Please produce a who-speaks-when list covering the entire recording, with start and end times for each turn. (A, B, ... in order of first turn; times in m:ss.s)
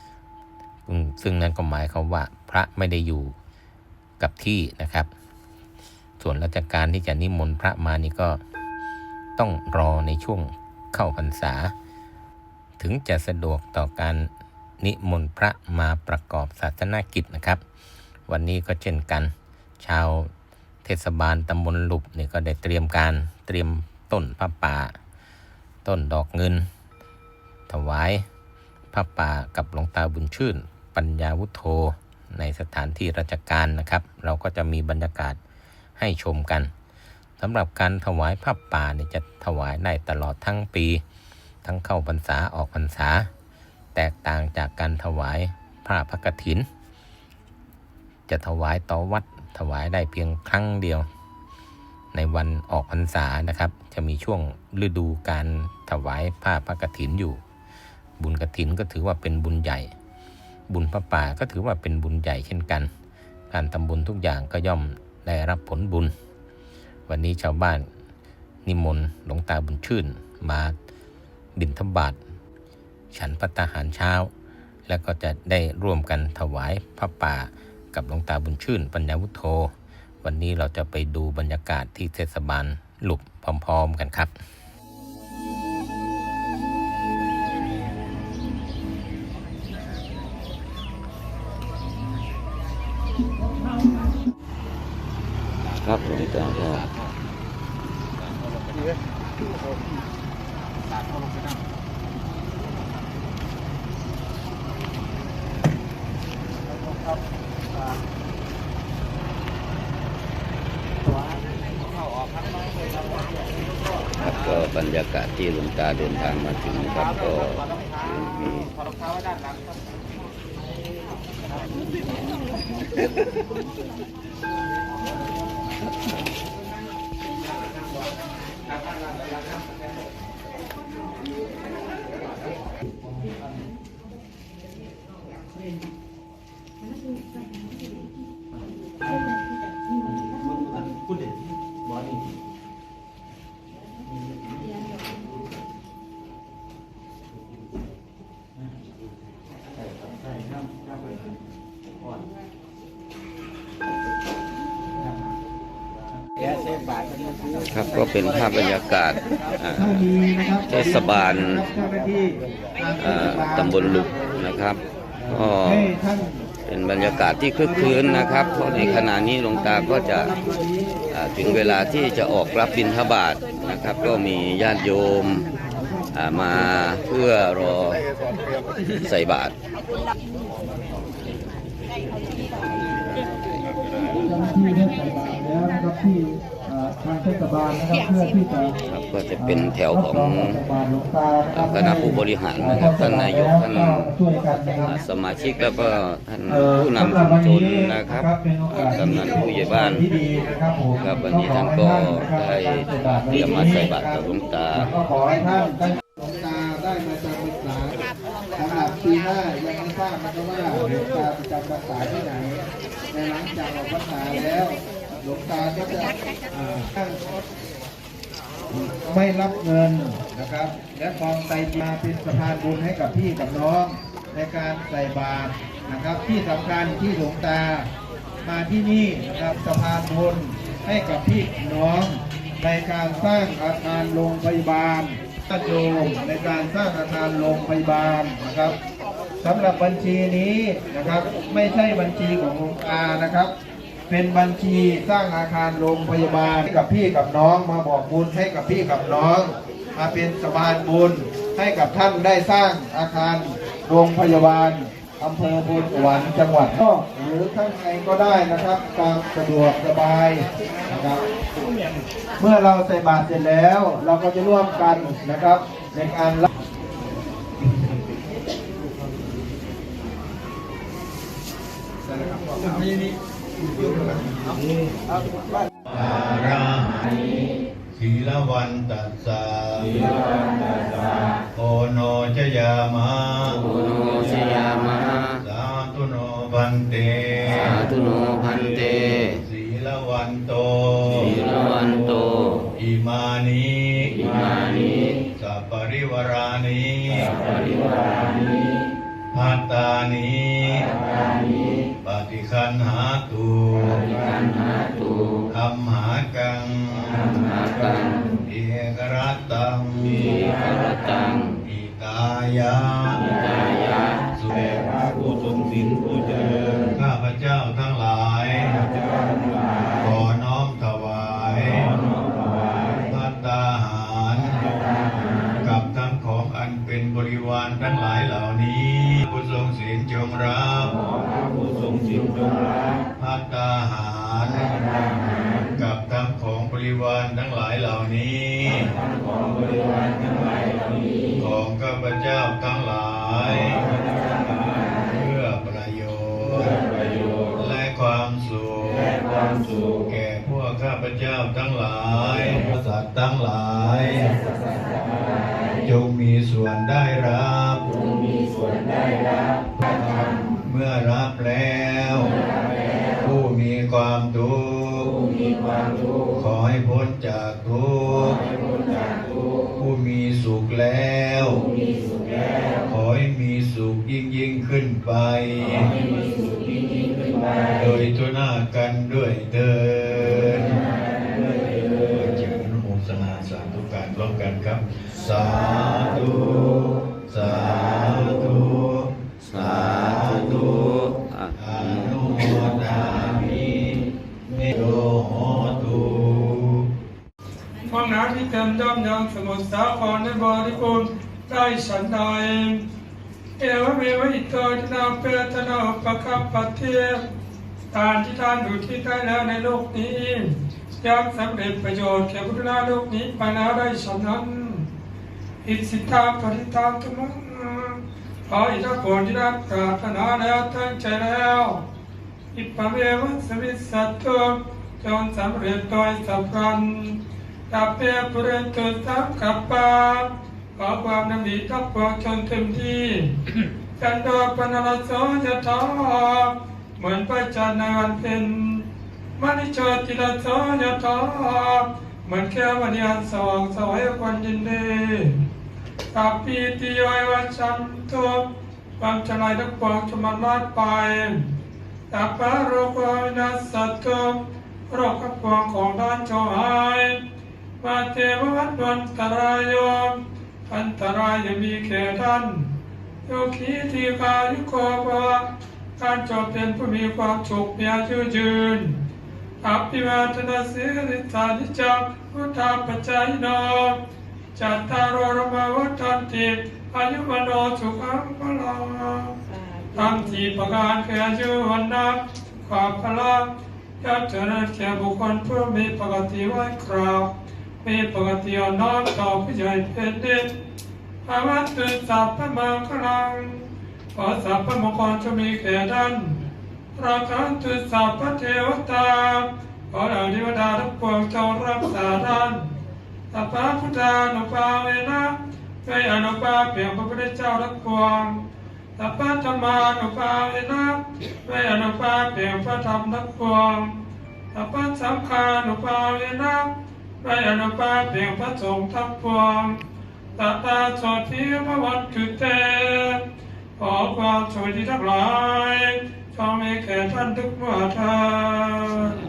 0:00.8-0:03.3 A
0:04.2-0:05.1 A
0:06.2-0:08.4 A
0:09.4-0:11.7 A
0:12.8-0:14.3 A
0:14.8-0:17.6 A
0:18.3-0:20.3 A
0:20.8-0:24.9 A
0:25.8-0:26.6 A
0:27.7-0:28.2 A
0:28.9-0:35.4 A
0:36.0-0:36.7 A
0:37.4-0:41.0 A
0:41.6-0:43.3 A
0:43.9-0:46.6 A
0:48.3-0:51.0 A
0:52.1-0:57.4 A
0:58.2-0:59.9 A
1:00.7-1:02.9 A
1:03.5-1:06.1 A
1:07.1-1:07.9 A
1:08.6-1:10.7 A
1:11.6-1:12.2 A
1:13.1-1:14.3 A
1:14.9-1:19.7 A
1:20.2-1:24.3 A
1:35.8-1:36.9 B
1:54.2-1:58.7 B
2:37.7-2:39.9 B
2:39.7-2:44.5 C
2:40.7-2:41.6 B
2:43.0-2:44.8 B
2:45.2-2:52.4 C
2:45.3-2:45.9 B
2:46.7-2:50.3 B
2:51.1-2:55.4 B
2:53.7-2:54.2 C
2:55.0-2:56.6 C
2:56.1-2:58.0 B
2:58.9-2:59.5 B
3:04.1-3:08.7 C
3:08.9-3:10.6 B
3:09.4-3:15.0 C
3:11.5-3:14.1 B
3:14.8-3:18.3 B
3:16.5-3:28.0 C
3:18.9-3:20.0 B
3:21.0-3:24.9 B
3:28.6-3:37.2 C
3:38.7-3:47.9 C
3:48.4-3:58.8 C
3:59.4-4:03.5 C
4:04.1-4:21.2 C
4:22.4-4:26.5 C
4:32.2-4:32.8 C
4:35.9-4:37.2 D
4:37.9-4:40.2 D
4:41.5-4:44.1 D
4:43.7-4:45.4 B
4:45.3-4:48.0 D
4:47.5-4:49.3 B
4:48.8-4:51.4 D
4:51.2-4:52.6 B
4:52.8-4:54.5 D
4:55.3-4:57.4 D
4:59.3-5:01.0 D
5:02.0-5:04.1 D
5:05.5-5:07.4 D
5:07.6-5:08.2 B
5:08.4-5:10.4 D
5:10.8-5:11.4 B
5:11.6-5:13.5 D
5:14.3-5:14.9 D
5:16.9-5:18.9 D
5:20.0-5:22.0 D
5:23.0-5:24.6 D
5:25.6-5:31.0 D
5:33.2-5:34.9 D
5:35.7-5:39.0 D
5:41.3-5:43.9 D
5:45.0-5:46.8 D
5:47.5-5:54.4 D
5:55.8-5:58.9 D
6:00.6-6:02.4 D
6:03.2-6:05.3 D
6:06.3-6:08.4 D
6:09.8-6:11.7 D
6:12.9-6:16.0 D
6:17.7-6:20.9 D
6:22.0-6:36.9 D
6:29.4-6:32.1 B
6:37.9-6:42.8 E
6:43.6-6:47.2 E
6:47.9-6:54.9 E
6:55.6-7:01.8 E
7:02.5-7:07.2 E
7:07.7-7:18.8 E
7:19.4-7:25.4 E
7:26.1-7:28.4 E
7:29.0-7:31.4 E
7:32.1-7:34.4 E
7:34.9-7:37.2 E
7:37.8-7:40.2 E
7:40.7-7:42.6 E
7:43.3-7:45.4 E
7:46.0-7:48.9 E
7:49.6-7:54.0 E
7:54.6-7:59.3 E
7:59.9-8:03.5 E
8:04.0-8:07.3 E
8:07.8-8:10.5 E
8:11.2-8:13.6 E
8:14.1-8:16.3 E
8:17.0-8:22.7 E
8:23.3-8:28.3 E
8:29.0-8:33.9 E
8:34.5-8:36.7 E
8:37.2-8:39.7 E
8:40.4-8:43.2 E
8:43.8-8:49.1 E